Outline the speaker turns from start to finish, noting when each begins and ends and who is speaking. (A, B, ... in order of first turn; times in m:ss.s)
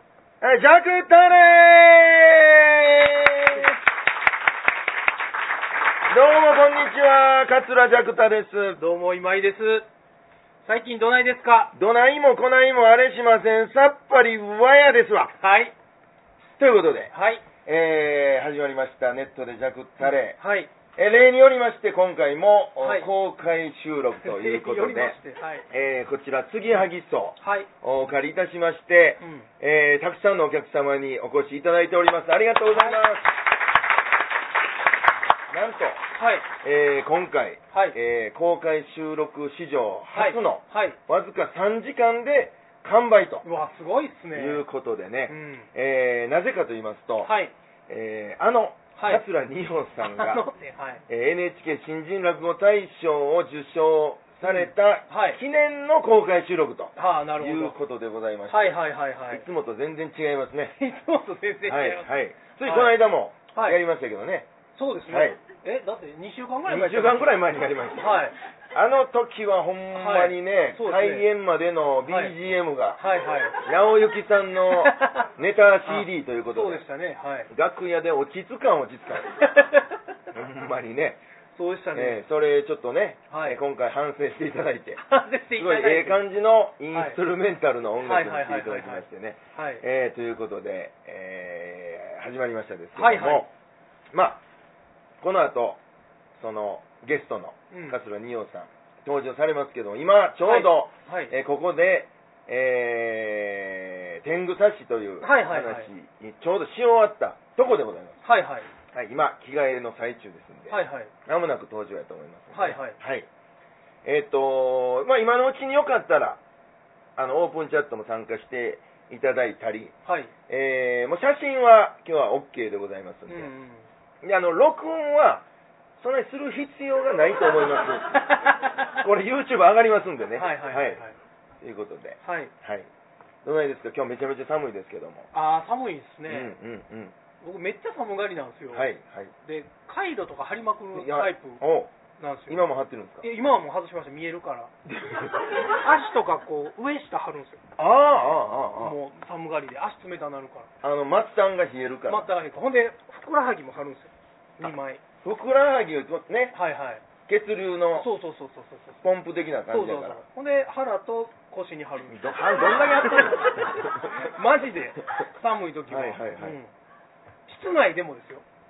0:00.4-0:03.8 A
0:06.1-0:08.8 A
0:08.8-0:09.9 B
0:10.6-0:11.8 B
0:11.7-0:15.4 A
0:15.4-0:15.7 B
0:16.6-0:17.1 A
0:17.1-0:17.5 B
0:17.6-0:20.4 A
0:20.0-0:20.7 B
0:21.0-0:25.2 A
0:22.8-0:23.1 B
0:24.2-0:25.7 B
0:25.7-0:33.3 A
0:27.4-0:27.7 B
0:29.2-0:29.5 B
0:32.7-0:33.0 B
0:35.5-0:36.0 A
0:36.2-0:36.5 B
0:36.6-0:43.5 A
0:37.7-0:38.0 B
0:40.1-0:41.0 B
0:43.4-0:44.6 B
0:44.3-0:47.3 A
0:45.3-0:45.7 B
0:47.2-0:47.5 B
0:47.9-0:50.4 A
0:49.0-0:49.2 B
0:50.0-0:51.0 B
0:51.1-1:00.8 A
0:54.4-0:55.4 B
0:57.0-0:57.8 B
0:58.5-0:59.5 B
1:00.8-1:03.8 B
1:01.6-1:04.5 A
1:04.8-1:08.4 B
1:05.1-1:05.4 A
1:06.7-1:13.0 A
1:09.9-1:11.3 B
1:12.0-1:12.4 B
1:13.0-1:13.6 B
1:13.6-1:16.9 A
1:14.7-1:15.2 B
1:15.8-1:17.5 B
1:17.5-1:19.4 A
1:19.4-1:19.8 B
1:20.3-1:21.2 A
1:21.6-1:22.2 B
1:21.9-1:33.5 A
1:23.3-1:23.6 B
1:25.1-1:26.2 B
1:26.9-1:27.2 B
1:28.0-1:29.8 B
1:33.0-1:33.5 B
1:34.1-1:34.4 A
1:35.2-1:35.8 A
1:36.4-1:48.2 A
1:37.7-1:38.0 B
1:40.4-1:41.3 B
1:45.2-1:45.9 B
1:48.2-1:48.7 B
1:48.9-1:53.3 A
1:50.7-1:51.1 B
1:52.5-1:53.0 B
1:54.0-1:56.4 A
1:57.2-1:59.9 A
2:00.1-2:00.3 B
2:00.5-2:03.5 A
2:03.3-2:03.9 B
2:04.2-2:05.4 A
2:06.0-2:08.3 A
2:08.3-2:08.8 B
2:08.9-2:11.0 A
2:10.4-2:11.2 B
2:11.6-2:12.9 A
2:12.2-2:12.5 B
2:13.4-2:15.3 A
2:15.3-2:16.6 B
2:16.3-2:17.2 A
2:17.4-2:18.9 B
2:18.7-2:19.3 A
2:19.4-2:21.6 B
2:20.9-2:21.9 A
2:22.2-2:24.7 B
2:22.5-2:23.3 A
2:24.9-2:25.4 A
2:25.7-2:27.6 B
2:27.8-2:29.0 A
2:28.8-2:30.7 B
2:30.8-2:32.3 A
2:32.1-2:35.0 B
2:34.6-2:36.6 A
2:36.5-2:37.0 B
2:37.3-2:38.1 A
2:38.0-2:39.0 B
2:39.0-2:40.2 A
2:39.7-2:46.7 B
2:42.1-2:44.1 A
2:45.9-2:46.6 A
2:47.5-2:48.4 B